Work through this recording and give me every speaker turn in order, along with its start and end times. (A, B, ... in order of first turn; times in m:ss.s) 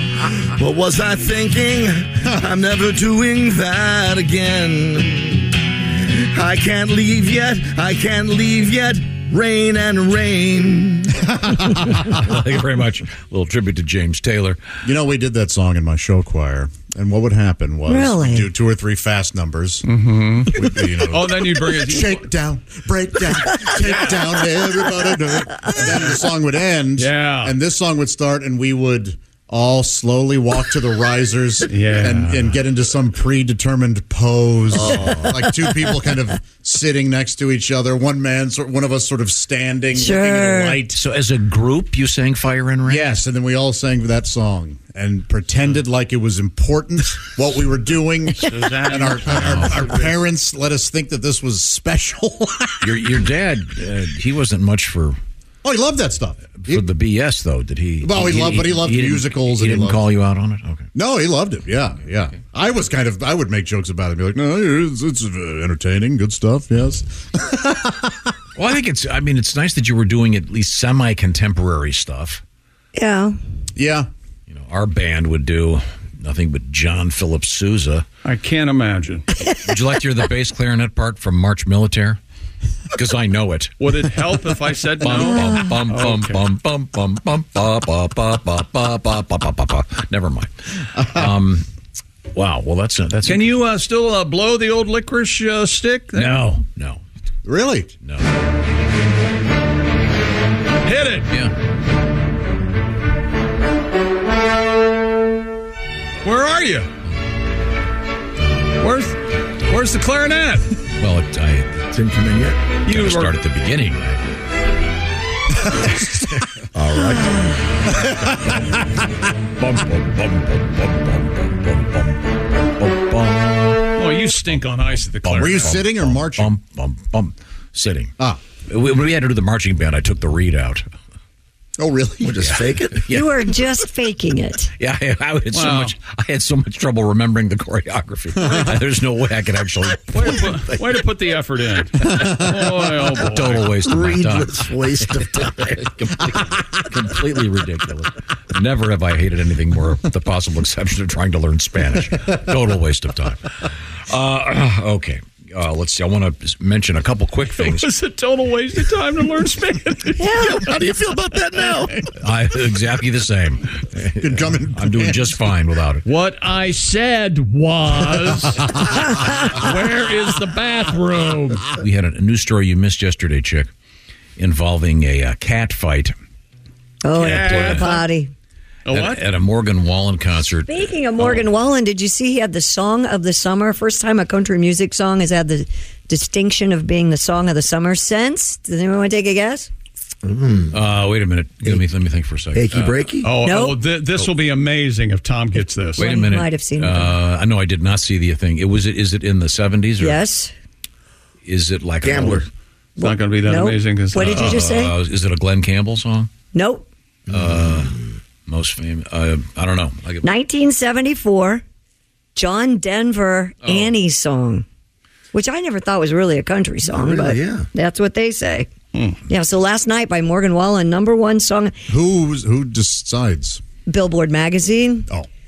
0:00.3-0:11.2 A
0:11.5-0:11.8 B
0:12.1-0:14.6 C
0:14.8-0:19.9 B
0:17.9-0:18.5 D
0:19.9-0:22.2 E
0:20.5-0:41.0 B
0:27.0-0:27.5 E
0:31.7-0:32.5 E
0:39.9-0:40.8 D
0:40.9-0:43.1 C
0:42.9-0:53.0 B
0:48.4-0:50.2 E
0:49.3-0:49.8 C
0:52.8-0:55.2 C
0:55.6-0:56.8 B
0:56.6-1:00.9 C
0:58.0-1:00.0 B
1:01.0-1:08.1 B
1:08.6-1:12.4 C
1:13.0-1:13.4 D
1:13.8-1:14.1 B
1:14.5-1:18.1 C
1:18.2-1:19.3 E
1:19.6-1:22.2 C
1:22.9-1:23.8 C
1:23.8-1:26.4 E
1:25.0-1:30.5 C
1:31.0-1:31.7 C
1:32.3-1:33.6 C
1:33.2-1:36.6 E
1:36.2-1:37.0 C
1:37.4-1:37.9 B
1:38.0-1:38.3 C
1:40.8-1:41.3 E
1:46.2-1:46.9 E
1:48.8-1:50.8 E
1:51.0-1:54.2 C
1:52.9-1:53.4 E
1:56.8-1:58.5 C
1:59.6-2:08.1 C
2:04.0-2:05.8 E
2:05.3-2:06.5 B
2:08.7-2:10.9 C
2:11.8-2:12.4 B
2:12.2-2:13.1 A
2:12.5-2:13.3 C
2:13.1-2:14.7 D
2:14.8-2:21.0 C
2:15.5-2:15.9 E
2:20.1-2:23.8 E
2:23.2-2:33.4 C
2:23.8-2:25.8 A
2:34.1-2:37.9 C
2:37.5-2:40.3 E
2:40.2-2:40.6 D
2:40.4-2:42.0 A
2:42.1-2:46.0 C
2:44.2-2:45.3 B
2:46.0-2:51.7 E
2:51.7-2:53.7 C
2:54.4-2:56.2 C
2:57.0-2:58.3 D
2:57.1-2:58.0 E
2:57.2-2:58.0 C
2:58.9-2:59.2 E
2:58.9-3:01.5 C
3:00.6-3:09.7 D
3:10.2-3:10.8 A
3:10.7-3:13.0 C
3:12.6-3:13.3 A
3:13.2-3:16.0 E
3:13.4-3:13.8 D
3:16.0-3:17.2 D
3:16.0-3:20.2 C
3:20.0-3:20.5 D
3:21.4-3:22.5 C
3:22.0-3:22.5 A
3:23.0-3:25.0 D
3:23.0-3:24.6 E
3:24.2-3:26.3 C
3:26.5-3:26.9 D
3:27.3-3:30.3 C
3:30.2-3:31.6 D
3:32.4-3:34.6 D
3:33.6-3:34.0 C
3:35.3-3:38.7 D
3:36.9-3:37.7 A
3:39.3-3:41.7 D
3:41.9-3:43.6 B
3:43.9-3:45.1 D